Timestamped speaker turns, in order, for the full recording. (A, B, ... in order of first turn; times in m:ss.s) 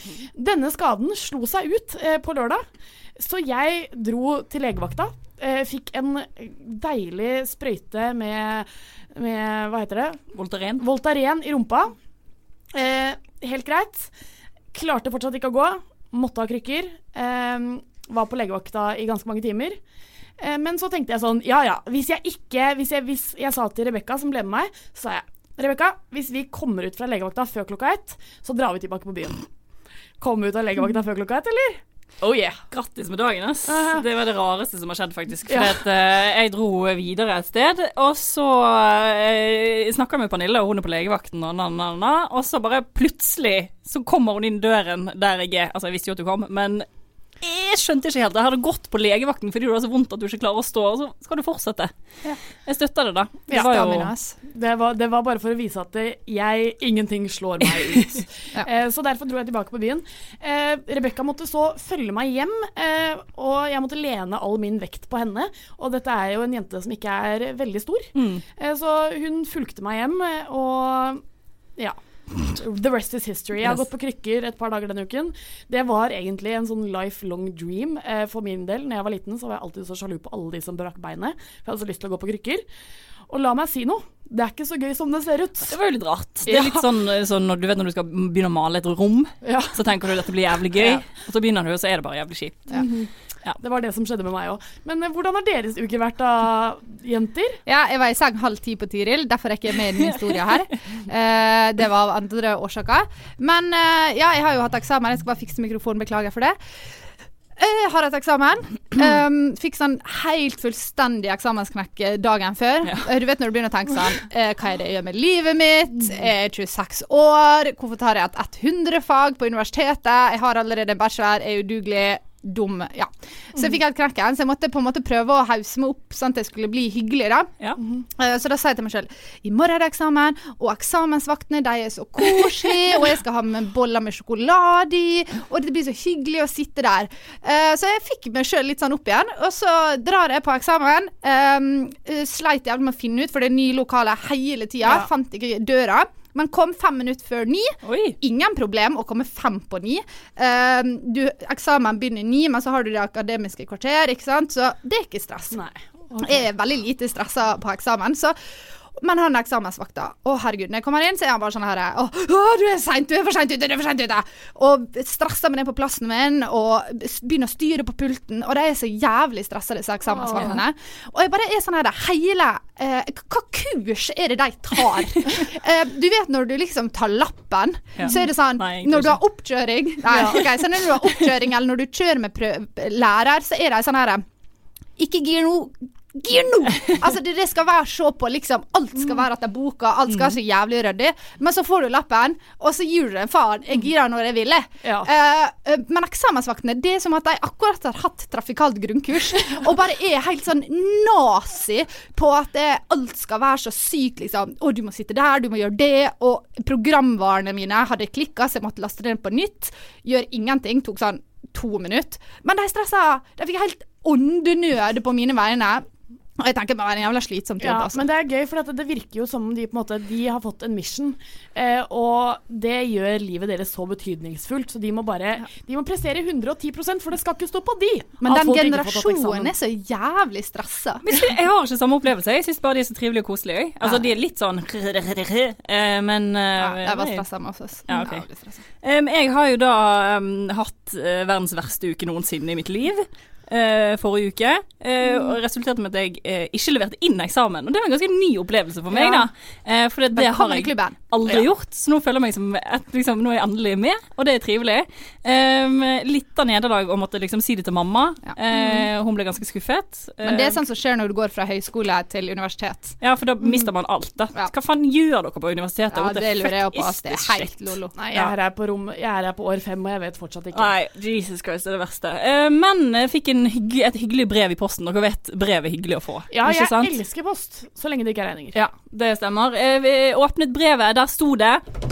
0:00.4-0:02.6 A
0:03.2-0:10.2 A
0:10.3-0:10.8 B
0:10.8-0:11.9 A
0:12.7-0:14.1 A
0:14.7-0:19.8 A
0:20.4-0:29.4 A
0:30.2-0:32.6 A
0:32.7-0:46.9 B
0:33.7-0:34.0 A
0:35.5-0:35.8 A
0:47.4-0:51.9 B
0:52.6-0:54.1 B
0:53.5-0:53.8 A
0:53.5-0:54.3 C
0:54.4-1:11.2 A
1:08.2-1:08.4 B
1:11.8-1:22.6 A
1:23.3-1:25.8 A
1:25.7-1:32.8 B
1:26.4-1:26.9 A
1:29.4-1:29.8 A
1:30.8-1:31.0 A
1:32.7-1:33.1 A
1:33.6-1:37.6 A
1:37.7-1:46.6 C
1:47.6-2:07.5 C
2:08.2-2:35.6 C
2:27.8-2:28.2 B
2:35.5-2:36.4 A
2:36.2-2:38.3 C
2:39.0-3:04.2 C
2:50.1-2:50.6 A
2:58.0-2:59.2 B
3:00.1-3:00.4 A
3:05.0-3:35.8 C
3:14.8-3:15.1 A
3:36.4-3:38.0 C
3:37.6-3:49.5 A
3:48.2-3:51.0 C
3:51.0-3:57.2 B
3:56.6-3:58.6 C
3:57.9-3:58.2 B
3:58.8-4:20.6 B
4:08.9-4:09.3 C
4:10.1-4:10.9 C
4:18.3-4:18.8 C
4:20.2-4:22.9 C
4:23.0-4:28.3 B
4:25.9-4:27.9 C
4:28.0-4:30.7 A
4:30.5-4:37.0 B
4:36.3-4:38.6 A
4:38.5-4:41.6 B